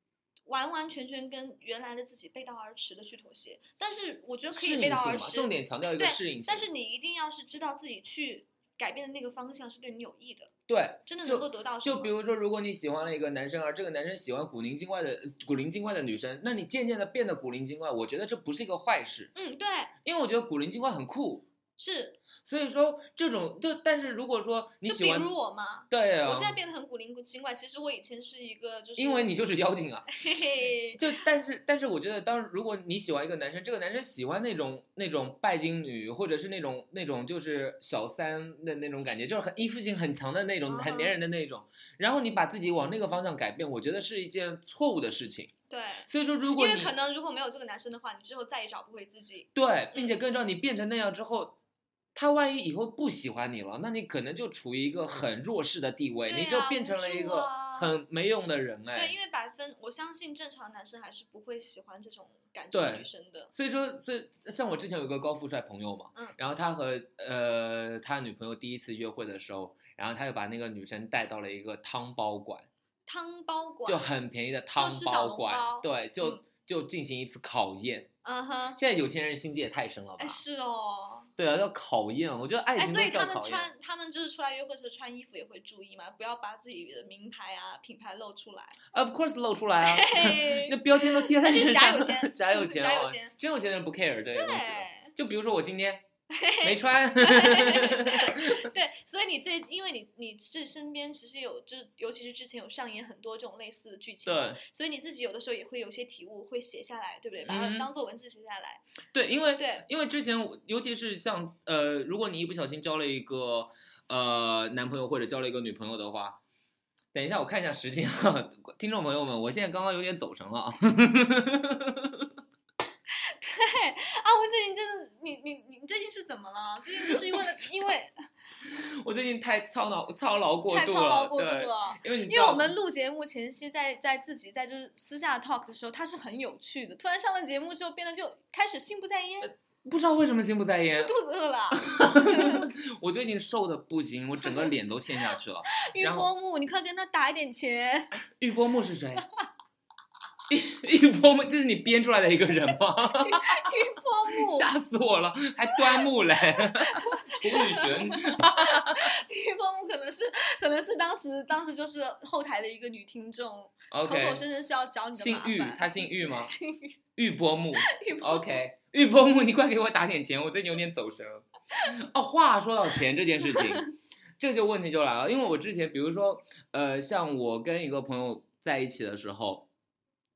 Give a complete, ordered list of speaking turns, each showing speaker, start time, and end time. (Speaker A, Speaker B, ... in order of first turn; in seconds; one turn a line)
Speaker A: 0.5-10.5
Speaker B: 4.5-6.7
Speaker B: 10.7-19.3
Speaker A: 11.1-12.1
Speaker A: 19.4-19.9
Speaker B: 20.1-21.5
Speaker A: 21.8-22.2
Speaker B: 22.4-25.3
Speaker A: 24.9-29.3
Speaker B: 25.9-26.6
Speaker B: 29.0-30.1
Speaker A: 30.2-31.0
Speaker B: 31.0-45.5
Speaker A: 40.7-41.1
Speaker A: 45.7-50.1
Speaker B: 46.1-46.9
Speaker B: 49.5-51.5
Speaker B: 52.1-59.1
Speaker A: 56.3-58.0
Speaker A: 58.9-63.5
Speaker B: 62.7-72.7
Speaker A: 73.1-74.1
Speaker B: 73.9-78.1
Speaker A: 74.8-76.4
Speaker A: 78.2-78.8
Speaker B: 78.8-80.4
Speaker A: 80.2-81.3
Speaker B: 81.4-83.7
Speaker A: 82.8-88.8
Speaker B: 88.9-96.0
Speaker A: 89.8-93.3
Speaker A: 94.3-95.1
Speaker A: 96.3-108.8
Speaker B: 96.6-98.7
Speaker B: 104.3-104.6
Speaker B: 107.5-107.9
Speaker B: 109.1-116.4
Speaker A: 109.6-109.8
Speaker B: 117.1-122.3
Speaker A: 123.1-128.1
Speaker B: 127.0-127.6
Speaker B: 128.6-132.7
Speaker A: 130.7-139.5
Speaker B: 139.4-141.1
Speaker A: 140.8-142.7
Speaker B: 141.7-146.3
Speaker A: 144.5-144.7
Speaker A: 145.7-148.1
Speaker B: 148.3-149.2
Speaker B: 150.5-153.8
Speaker A: 153.2-154.7
Speaker B: 154.3-159.1
Speaker A: 156.6-167.0
Speaker B: 163.9-164.4
Speaker B: 165.2-166.5
Speaker B: 167.2-173.9
Speaker A: 167.8-168.6
Speaker B: 174.4-179.7